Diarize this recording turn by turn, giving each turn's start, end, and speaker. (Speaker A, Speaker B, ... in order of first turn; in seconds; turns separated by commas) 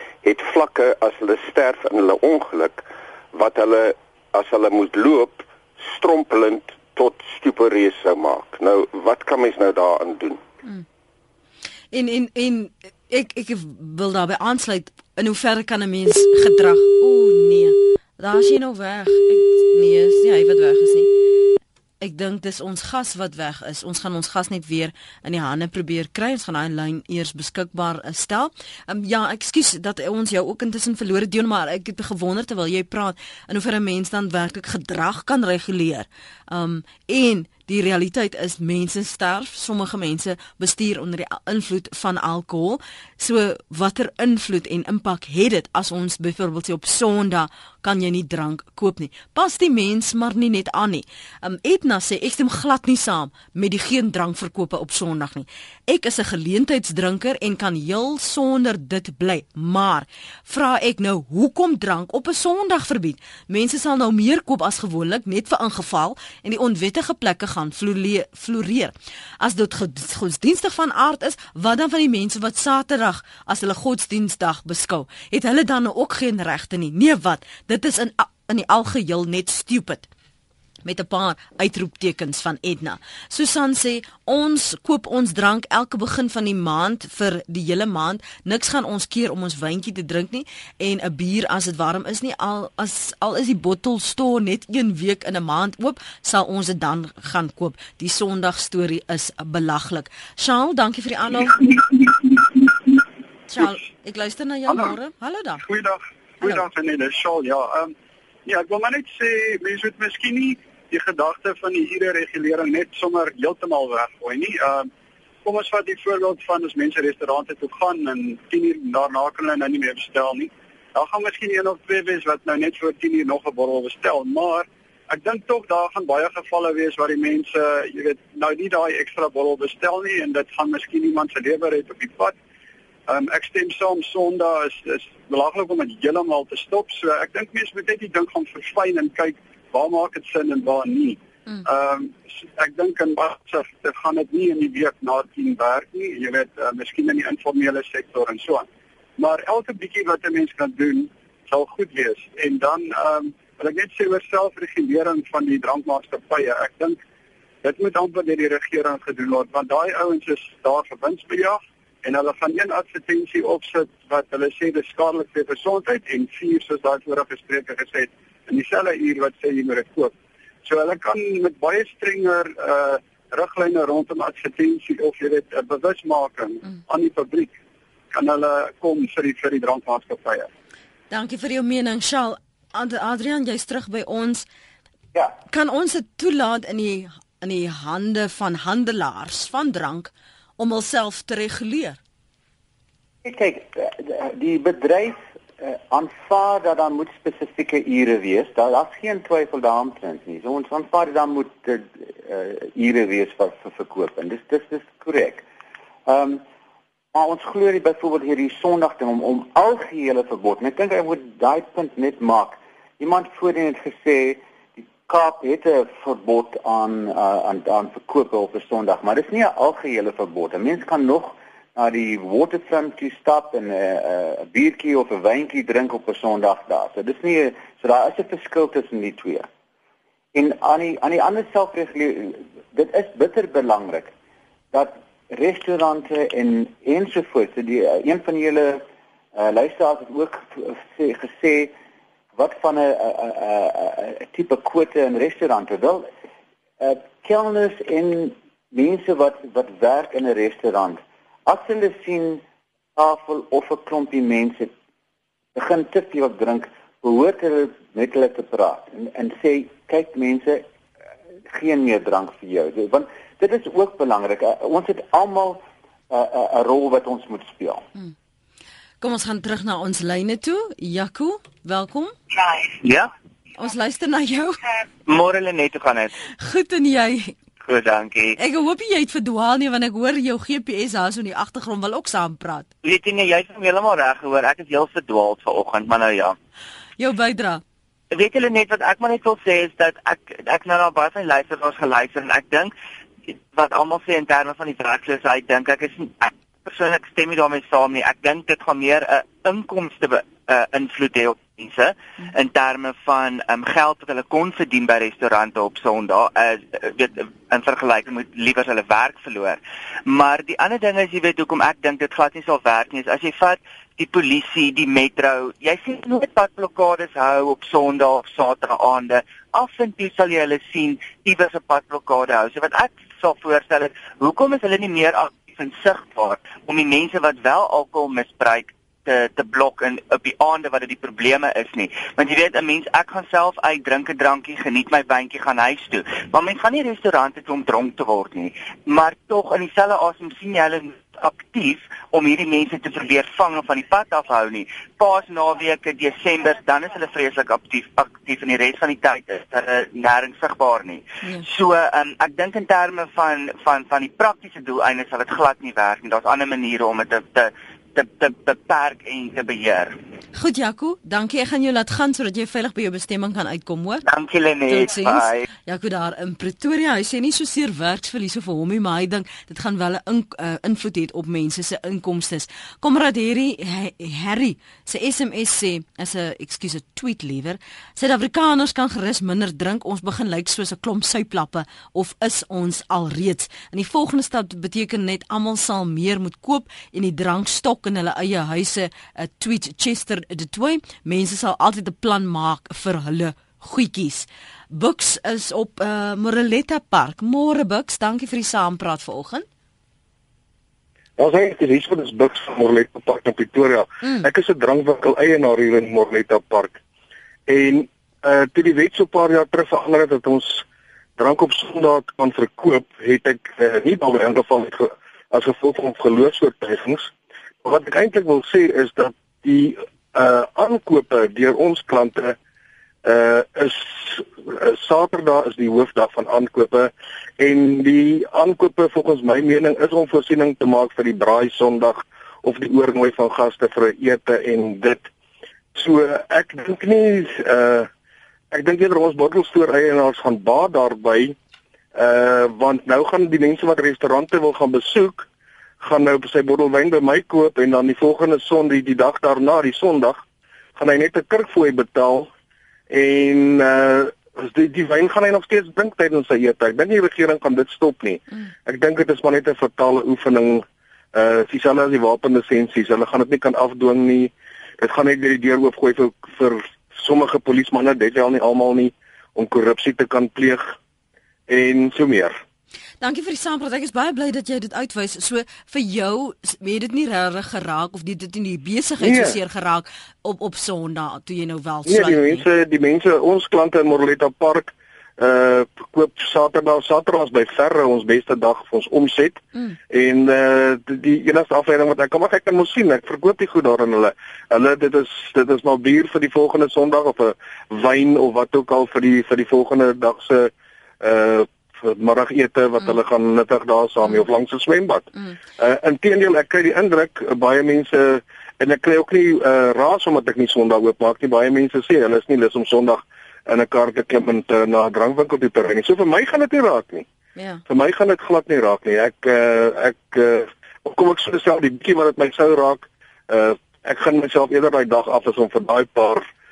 Speaker A: 0.2-10.4, Speaker B: 11.9-21.1, Speaker B: 22.0-80.1, Speaker B: 80.8-101.8, Speaker B: 103.5-105.7, Speaker C: 105.6-107.9, Speaker C: 108.5-114.9, Speaker C: 115.5-132.4, Speaker C: 133.1-148.7, Speaker C: 149.2-157.0, Speaker C: 157.6-170.1, Speaker C: 170.7-177.6, Speaker C: 178.1-180.5, Speaker B: 181.1-184.5, Speaker B: 185.5-192.0, Speaker D: 193.2-205.4, Speaker D: 206.1-206.4, Speaker D: 207.1-229.5, Speaker D: 230.3-234.1, Speaker D: 234.7-238.8, Speaker D: 239.3-241.7, Speaker D: 242.4-246.1, Speaker D: 246.8-252.4, Speaker D: 253.0-254.7, Speaker D: 255.6-260.6, Speaker D: 261.5-267.9, Speaker B: 269.0-272.1, Speaker E: 272.4-273.1, Speaker B: 273.6-274.6, Speaker E: 275.1-276.1, Speaker B: 276.4-277.4, Speaker E: 277.6-278.4, Speaker B: 278.4-282.7, Speaker E: 282.8-286.4, Speaker B: 287.0-287.6, Speaker E: 288.1-292.7, Speaker E: 293.3-360.0, Speaker B: 360.4-364.1, Speaker E: 364.1-365.4, Speaker B: 364.7-399.5, Speaker F: 401.2-406.8, Speaker F: 407.5-410.6, Speaker F: 411.2-417.1, Speaker F: 417.6-422.4, Speaker F: 423.1-435.1, Speaker F: 435.8-437.9, Speaker F: 438.5-441.4, Speaker F: 441.9-445.3, Speaker F: 445.8-450.2, Speaker F: 450.8-452.3, Speaker F: 452.9-470.8, Speaker F: 471.5-472.4, Speaker B: 473.0-482.4, Speaker F: 479.0-479.4, Speaker F: 481.9-517.1, Speaker B: 517.4-517.6, Speaker F: 517.7-526.2